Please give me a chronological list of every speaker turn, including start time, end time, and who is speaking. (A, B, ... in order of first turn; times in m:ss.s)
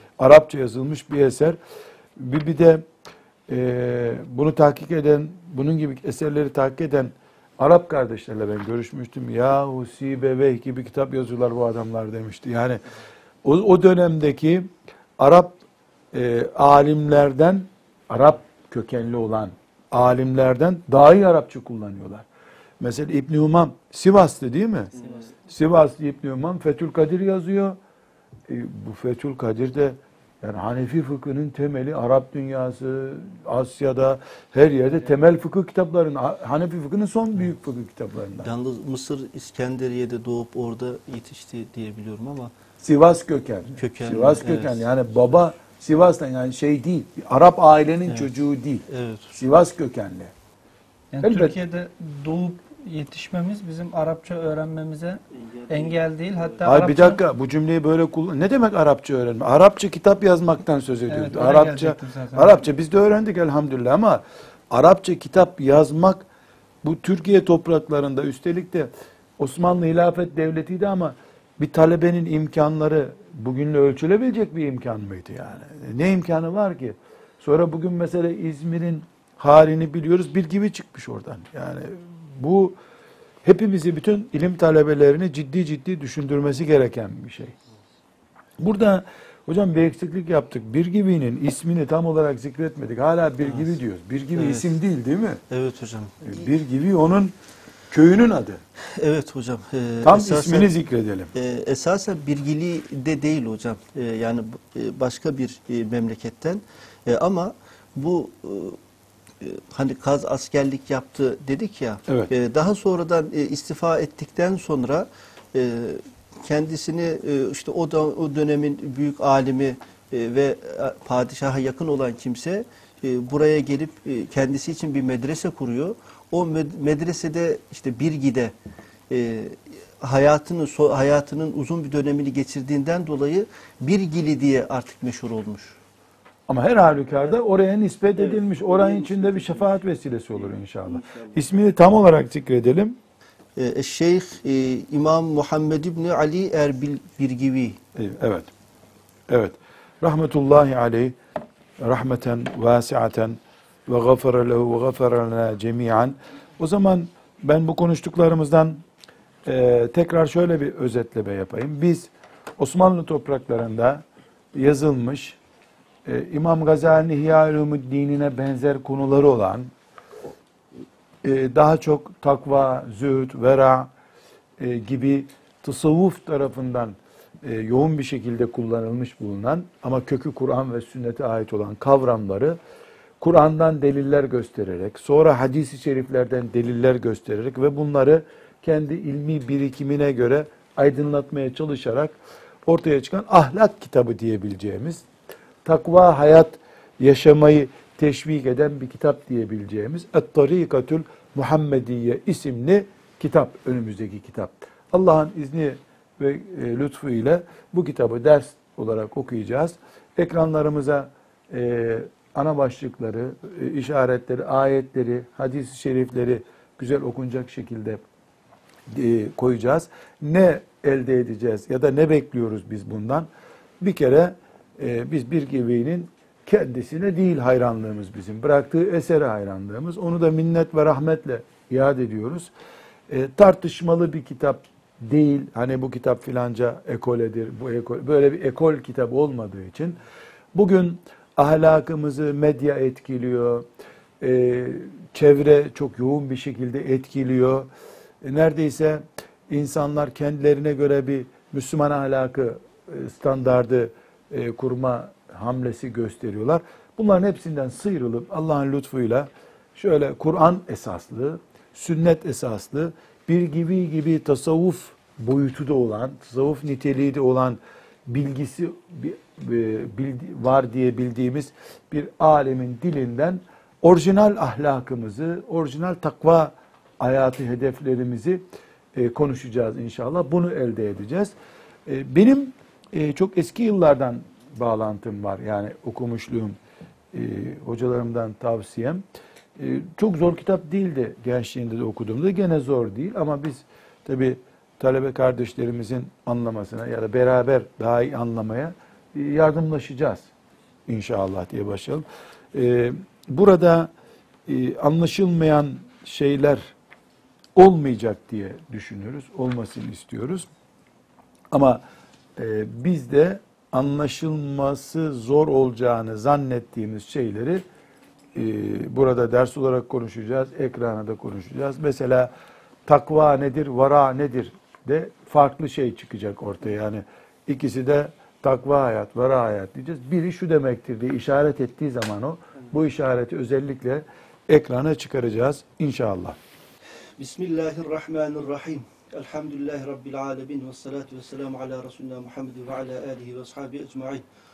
0:00.2-0:01.6 A
0:02.2-0:02.8 A
0:03.5-0:12.8 A
0:13.4-0:15.6 A
0:16.1-0:22.2 A
0:22.8-0:24.9 A
0:25.0-0:25.2 B
0:25.5-0:27.8 A
0:28.5-0:38.5 A
0:38.4-0:42.5 B
0:42.8-0:50.3 A
0:43.8-0:44.9 B
0:48.9-0:49.4 B
0:51.1-0:57.2 C
0:51.2-0:51.6 A
0:55.3-0:56.8 B
0:56.6-1:06.2 A
1:01.1-1:02.6 C
1:06.8-1:22.8 A
1:23.4-1:27.5 A
1:28.6-1:35.4 A
1:34.3-1:34.8 B
1:35.5-1:36.4 B
1:36.2-1:37.4 A
1:37.9-1:38.6 A
1:38.8-1:40.7 B
1:40.0-1:41.3 A
1:41.3-1:48.8 B
1:49.4-2:08.5 B
2:09.1-2:15.8 B
2:16.5-2:23.0 A
2:18.2-2:19.8 B
2:20.3-2:21.4 B
2:23.6-2:27.8 B
2:28.0-2:28.5 A
2:29.3-2:31.2 A
2:31.8-2:38.8 A
2:39.4-2:45.4 A
2:46.0-2:49.7 A
2:51.2-2:53.9 A
2:54.6-3:02.6 A
3:03.2-3:15.0 A
3:15.6-3:38.0 A
3:38.9-3:43.3 A
3:43.8-3:52.5 A
3:53.1-4:00.0 A
4:00.5-4:03.6 A
4:04.2-4:07.7 A
4:08.2-4:38.4 A
4:38.9-4:41.3 A
4:41.8-4:46.6 A
4:47.1-4:49.0 A
4:49.6-5:00.3 A
5:00.9-5:03.9 A
5:04.5-5:06.7 A
5:07.5-5:10.5 A
5:11.5-5:11.8 A
5:12.4-5:17.6 A
5:18.3-5:22.3 A
5:22.8-5:36.4 A
5:37.2-5:44.2 B